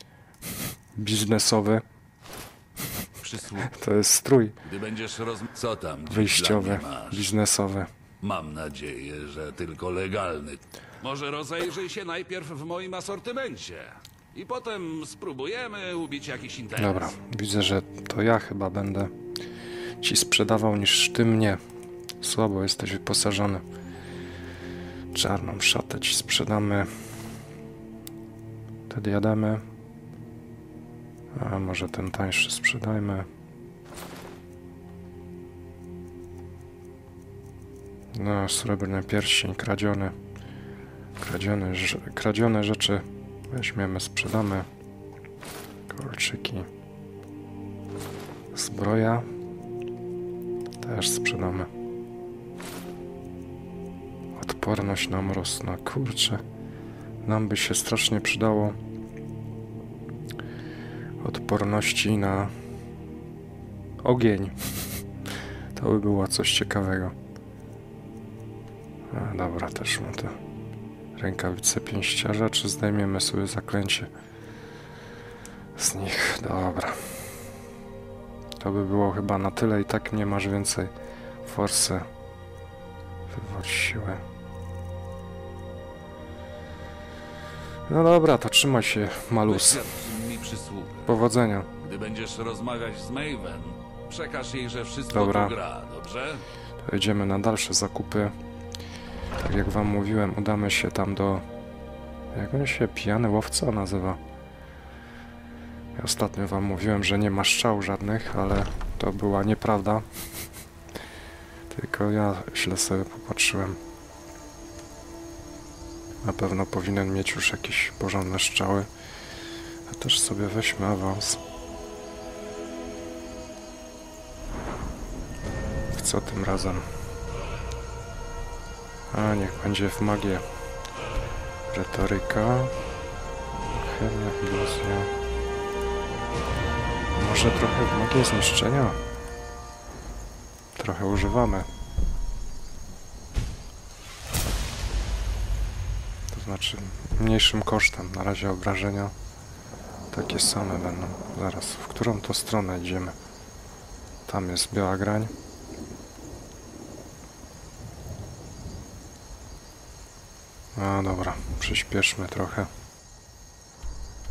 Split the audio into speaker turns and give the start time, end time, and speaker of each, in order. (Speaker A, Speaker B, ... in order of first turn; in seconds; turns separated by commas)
Speaker A: 0.9-1.8, Speaker B: 3.2-3.7, Speaker A: 3.6-4.6, Speaker B: 4.6-7.3, Speaker A: 6.1-7.9, Speaker B: 8.2-17.1, Speaker A: 16.8-19.1, Speaker A: 20.0-21.6, Speaker A: 22.2-23.6, Speaker A: 25.1-26.9, Speaker A: 28.9-29.6, Speaker A: 31.4-33.3, Speaker A: 38.1-40.1, Speaker A: 41.2-44.7, Speaker A: 45.9-46.7, Speaker A: 48.5-49.3, Speaker A: 50.8-51.7, Speaker A: 54.4-56.4, Speaker A: 57.2-58.8, Speaker A: 61.2-62.5, Speaker A: 64.0-65.0, Speaker A: 65.7-67.1, Speaker A: 69.1-70.3, Speaker A: 71.2-74.1, Speaker A: 75.8-77.3, Speaker A: 78.6-80.9, Speaker A: 81.4-82.1, Speaker A: 83.3-84.2, Speaker A: 87.9-89.8, Speaker B: 89.5-91.1, Speaker A: 91.0-91.7, Speaker B: 91.8-96.4, Speaker A: 95.1-95.5, Speaker A: 96.8-98.3, Speaker A: 99.4-101.4, Speaker A: 102.3-104.2, Speaker A: 106.0-110.0, Speaker A: 111.7-113.8, Speaker A: 116.2-118.9, Speaker A: 119.9-121.4, Speaker A: 125.9-126.8, Speaker A: 129.1-130.5, Speaker A: 131.7-132.7, Speaker A: 133.6-135.1, Speaker A: 137.2-139.0, Speaker A: 140.8-141.7, Speaker A: 146.3-149.1, Speaker A: 150.1-153.1, Speaker A: 154.3-155.3, Speaker A: 160.8-162.7